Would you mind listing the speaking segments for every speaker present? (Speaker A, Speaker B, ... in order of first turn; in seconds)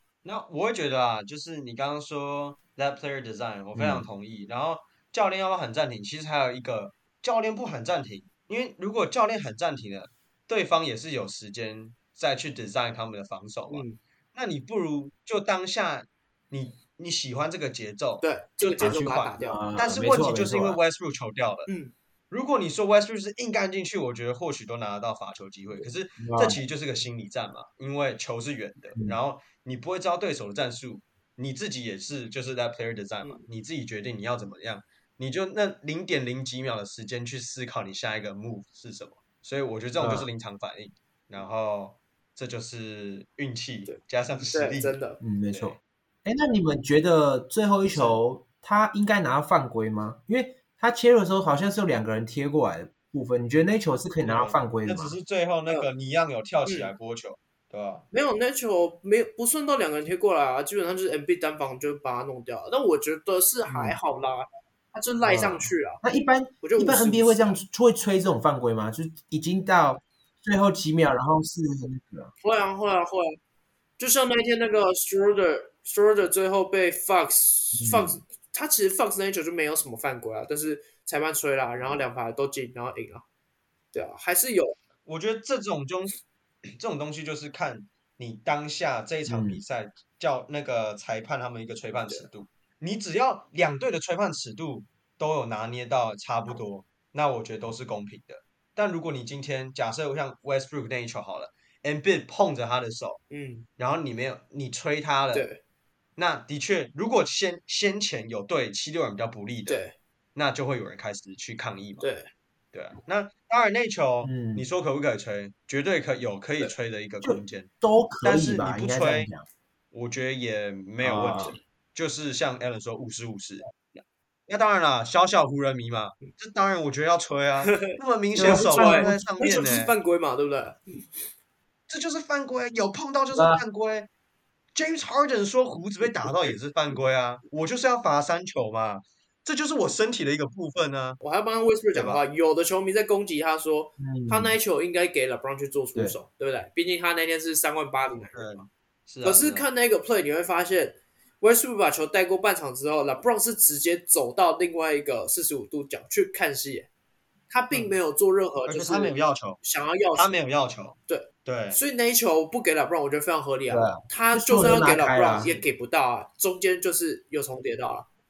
Speaker A: 0.2-21.7, 22.3-45.0, 45.5-45.8, 54.2-58.1, 85.0-103.2, 103.8-105.5, 106.2-109.8, 110.3-112.1, 112.7-117.7, 118.2-119.3, 119.9-129.9, 131.9-134.1, 134.8-141.2, 141.9-142.2, 148.3-149.7, 158.7-159.6, 160.2-161.8
Speaker B: 3.8-4.1, 18.8-20.8, 26.2-26.6, 40.0-40.3, 45.2-55.1, 63.7-64.0, 65.2-72.3, 77.8-78.2, 89.3-89.6, 114.2-114.7, 117.2-119.5, 121.0-121.5, 128.4-129.2, 133.3-133.6, 144.0-144.6, 163.7-165.5
Speaker C: 13.7-14.0, 18.2-19.6, 21.7-21.9, 44.5-45.2, 56.6-56.9, 58.1-66.0, 66.6-67.6, 72.4-73.4, 74.0-83.2, 83.9-84.8, 103.3-103.7, 105.3-105.6, 109.7-110.0, 112.0-112.3, 127.6-131.1, 136.2-136.5, 141.2-148.7, 149.2-156.9, 157.5-160.4, 161.1-168.1